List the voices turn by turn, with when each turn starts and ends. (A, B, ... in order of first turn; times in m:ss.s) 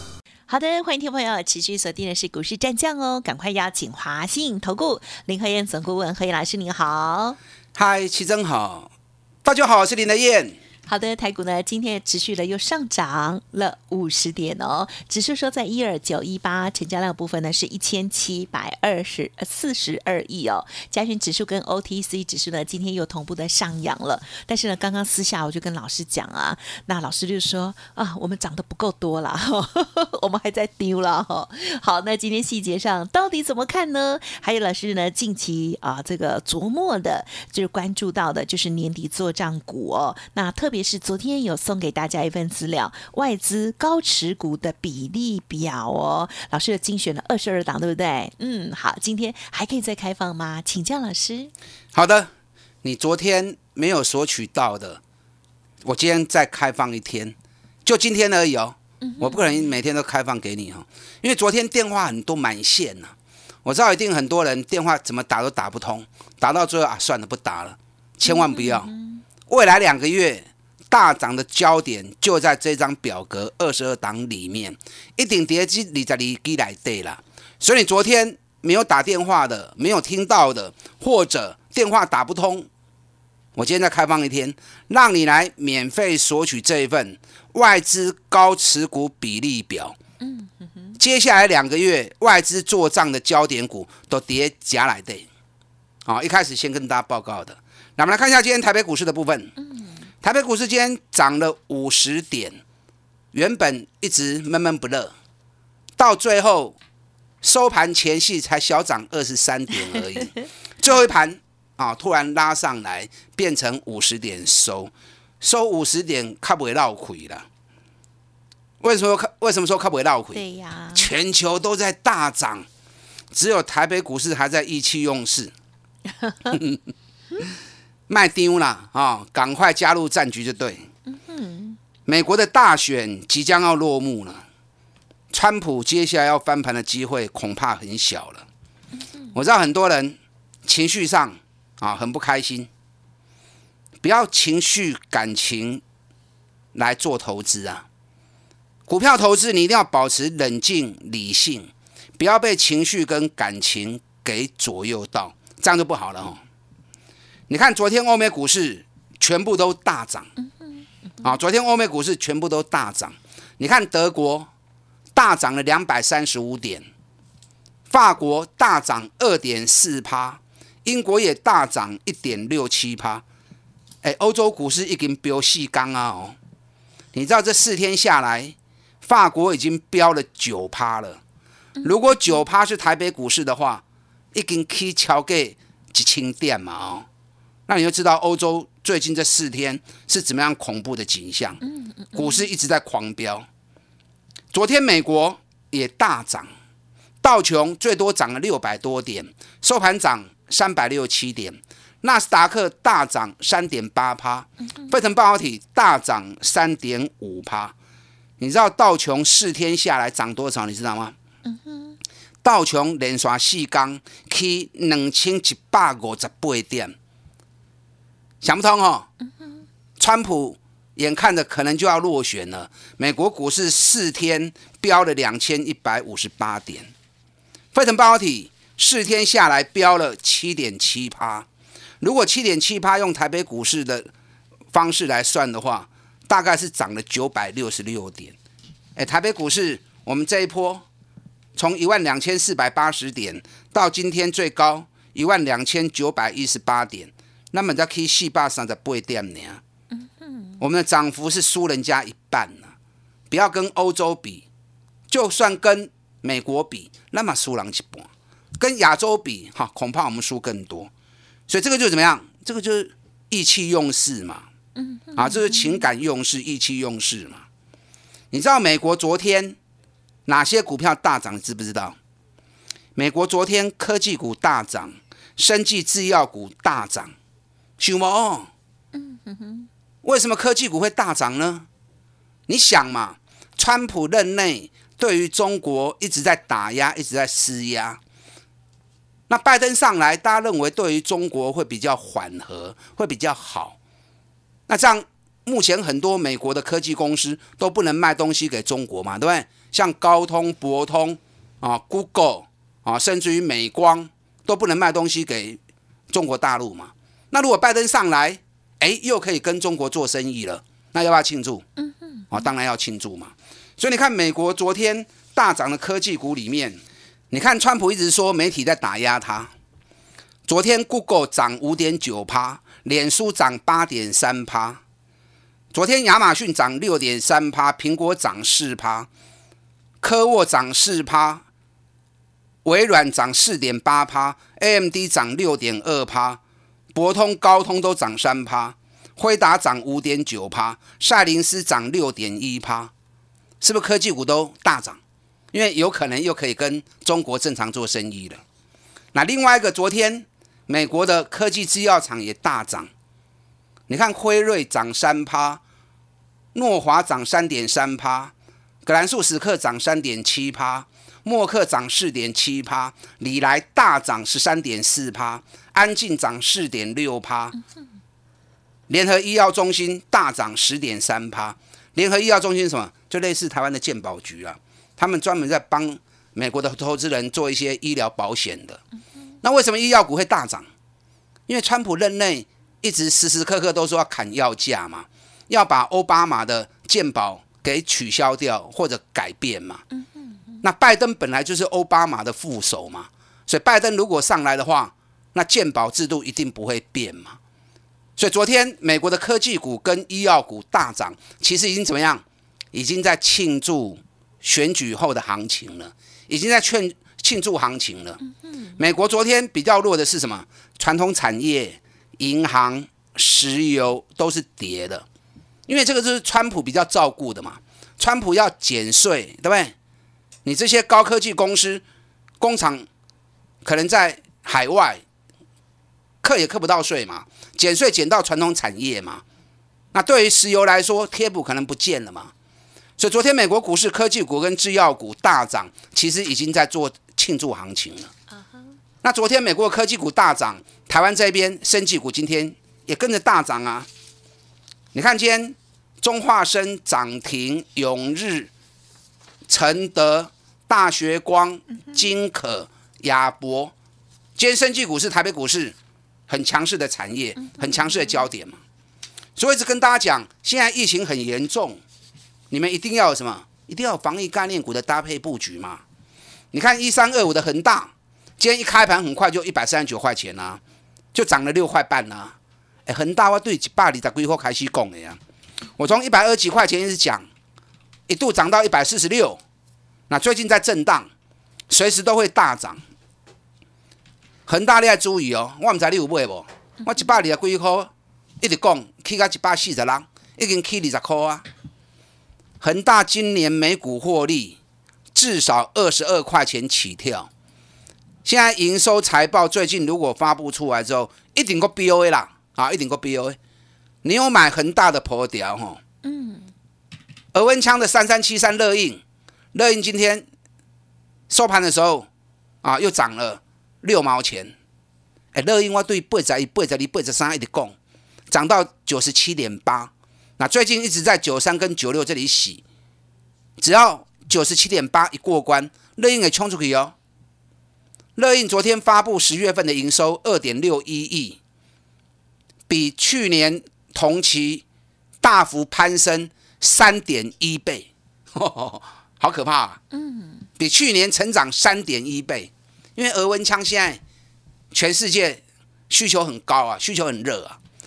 0:00.5-0:07.4 A
0:07.8-0:08.9 B
0:09.4-0:10.6 B
0:10.9-0:51.5 A
0:51.9-0:52.3 B
0:52.8-0:55.0 B
0:55.8-1:08.9 B
0:59.0-0:59.6 A
1:08.3-1:09.2 A
1:09.5-1:22.7 B
1:23.5-1:30.0 B
1:30.2-1:30.9 A
1:31.0-1:35.3 B
1:36.0-1:39.5 B
1:40.2-1:42.6 B
1:43.3-1:45.1 B
1:46.0-1:46.8 B
1:47.4-1:57.4 B
1:58.8-2:00.4 B
2:00.3-2:01.1 A
2:00.9-2:02.6 B
2:03.3-2:05.5 B
2:06.5-2:06.8 B
2:08.1-2:10.9 B
2:11.1-2:11.8 A
2:12.0-2:14.4 B
2:15.3-2:18.4 B
2:19.3-2:22.7 B
2:24.0-2:25.8 B
2:26.7-2:27.8 B
2:28.9-2:36.4 B
2:37.5-2:40.3 B
2:41.2-2:44.5 B
2:45.1-2:46.8 B
2:47.9-2:53.2 B
2:54.0-2:56.4 B
2:57.1-3:01.2 B
3:01.8-3:07.0 B
3:07.7-3:11.6 B
3:11.7-3:12.4 A
3:12.1-3:13.4 B
3:14.5-3:16.5 B
3:17.2-3:27.7 B
3:28.4-3:31.1 B
3:31.5-3:31.9 A
3:32.4-3:36.9 B
3:38.4-3:39.1 B
3:40.0-3:46.9 B
3:47.7-3:51.5 B
3:52.0-3:54.1 B
3:54.7-3:58.4 B
3:59.0-4:00.8 B
4:01.6-4:09.6 B
4:10.3-4:10.6 A
4:10.6-4:12.7 B
4:13.3-4:14.4 B
4:15.1-4:20.9 B
4:21.5-4:24.4 B
4:24.8-4:25.8 A
4:25.1-4:27.4 B
4:28.3-4:29.6 B
4:30.2-4:32.0 B
4:32.9-4:37.1 B
4:37.8-4:38.5 B
4:38.9-4:39.7 A
4:40.0-4:41.7 B
4:42.5-4:48.0 B
4:49.3-4:53.8 B
4:54.7-5:05.6 B
5:06.1-5:11.6 B
5:11.8-5:12.3 A
5:12.3-5:19.5 B
5:20.5-5:24.8 B
5:25.7-5:29.1 B
5:30.0-5:31.4 B
5:32.6-5:36.4 B
5:36.9-5:42.9 B
5:43.6-5:45.0 B
5:45.5-5:48.4 B
5:49.1-5:52.9 B
5:53.9-5:55.6 B
5:56.5-5:58.3 B
5:58.8-6:07.6 B
6:08.9-6:18.8 B
6:19.4-6:20.6 B
6:21.5-6:29.8 B
6:30.6-6:37.4 B
6:38.2-6:48.2 B
6:48.8-6:55.0 B
6:55.7-6:59.7 B
7:00.4-7:01.8 B
7:02.4-7:02.9 B
7:03.6-7:05.0 B
7:06.2-7:09.2 B
7:09.9-7:12.3 B
7:13.0-7:18.1 B
7:19.0-7:23.9 B
7:24.9-7:28.5 B
7:29.5-7:33.7 B
7:34.4-7:35.7 B
7:36.3-7:38.6 B
7:39.4-7:41.8 B
7:42.5-7:45.8 B
7:46.5-7:50.6 B
7:51.1-7:52.3 B
7:52.8-7:55.2 B
7:55.8-7:57.2 B
7:58.1-7:59.4 B
8:00.1-8:01.1 B
8:01.7-8:02.8 B
8:04.5-8:11.4 B
8:12.6-8:14.6 B
8:15.1-8:17.3 B
8:18.2-8:23.4 B
8:24.0-8:25.8 B
8:26.0-8:26.5 A
8:27.3-8:29.0 B
8:29.5-8:30.2 B
8:31.3-8:32.1 B
8:32.6-8:34.5 B
8:35.3-8:37.7 B
8:38.3-8:42.6 B
8:43.6-8:46.9 B
8:48.2-8:51.4 B
8:52.7-8:54.6 B
8:55.2-8:59.8 B
8:59.9-9:00.5 A
9:00.6-9:04.0 B
9:04.7-9:07.6 B